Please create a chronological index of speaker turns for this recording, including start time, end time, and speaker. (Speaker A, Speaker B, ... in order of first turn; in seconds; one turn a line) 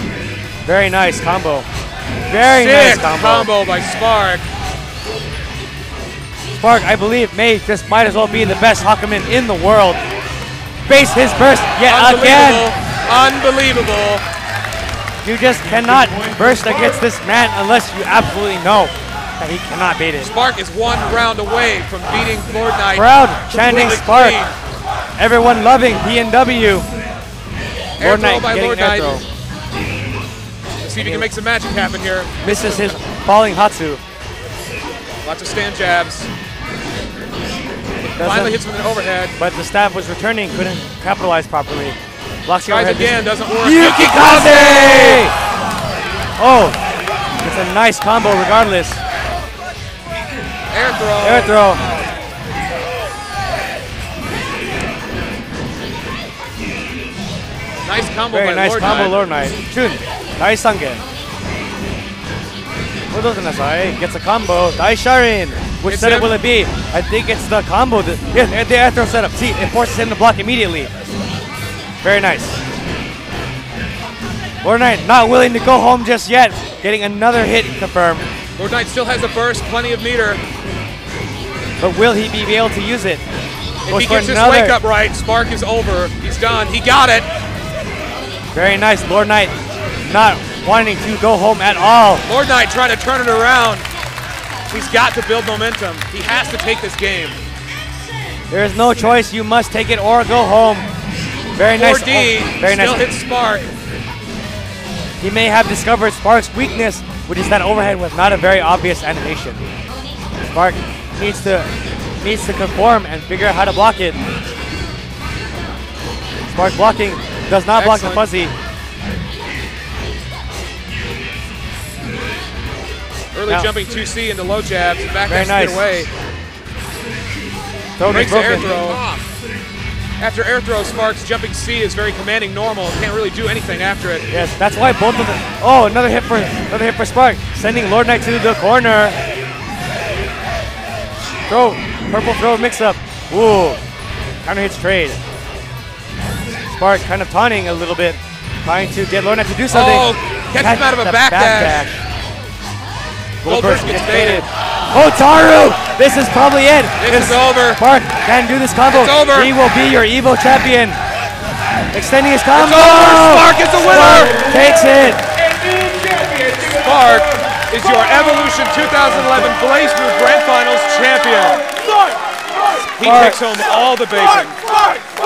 Speaker A: 0.7-1.7
Speaker A: 2.3-3.5
Speaker B: 2.4-4.5
Speaker A: 6.5-10.0
Speaker A: 10.9-12.7
Speaker B: 11.8-14.2
Speaker A: 15.2-20.3
Speaker B: 20.2-24.6
Speaker A: 22.9-24.4
Speaker A: 25.2-26.9
Speaker B: 28.0-29.2
Speaker A: 28.0-29.2
Speaker B: 30.8-33.0
Speaker A: 31.0-31.3
Speaker A: 32.4-34.0
Speaker B: 35.2-36.3
Speaker B: 38.0-39.4
Speaker A: 38.2-38.6
Speaker A: 39.4-45.3
Speaker B: 42.6-45.3
Speaker A: 46.4-46.8
Speaker A: 47.4-49.0
Speaker B: 50.7-51.6
Speaker A: 51.2-51.8
Speaker B: 57.8-59.2
Speaker A: 58.3-61.0
Speaker A: 63.1-70.9
Speaker B: 65.9-66.3
Speaker A: 72.0-72.6
Speaker A: 74.6-78.2
Speaker B: 78.6-80.4
Speaker A: 81.8-83.2
Speaker B: 83.9-87.3
Speaker A: 83.9-84.8
Speaker A: 88.5-92.2
Speaker B: 92.3-93.9
Speaker B: 94.7-97.4
Speaker A: 98.5-100.9
Speaker A: 101.6-103.0
Speaker B: 101.8-103.7
Speaker A: 105.2-109.6
Speaker A: 110.4-111.7
Speaker A: 112.2-114.2
Speaker A: 116.5-118.5
Speaker B: 117.8-118.3
Speaker B: 123.3-126.1
Speaker A: 125.3-125.8
Speaker A: 128.0-128.7
Speaker B: 128.1-129.2
Speaker B: 130.2-134.3
Speaker A: 134.3-139.2
Speaker A: 141.5-143.8
Speaker A: 144.4-145.2
Speaker A: 146.7-152.0
Speaker B: 149.7-151.9
Speaker A: 153.4-161.0
Speaker B: 153.4-154.5
Speaker B: 157.0-157.8
Speaker B: 158.9-159.6
Speaker A: 161.9-165.2
Speaker B: 162.5-164.5
Speaker C: 164.2-164.8
Speaker C: 165.3-166.7
Speaker B: 166.6-171.7
Speaker A: 169.1-169.5
Speaker B: 173.0-174.6
Speaker A: 173.0-173.4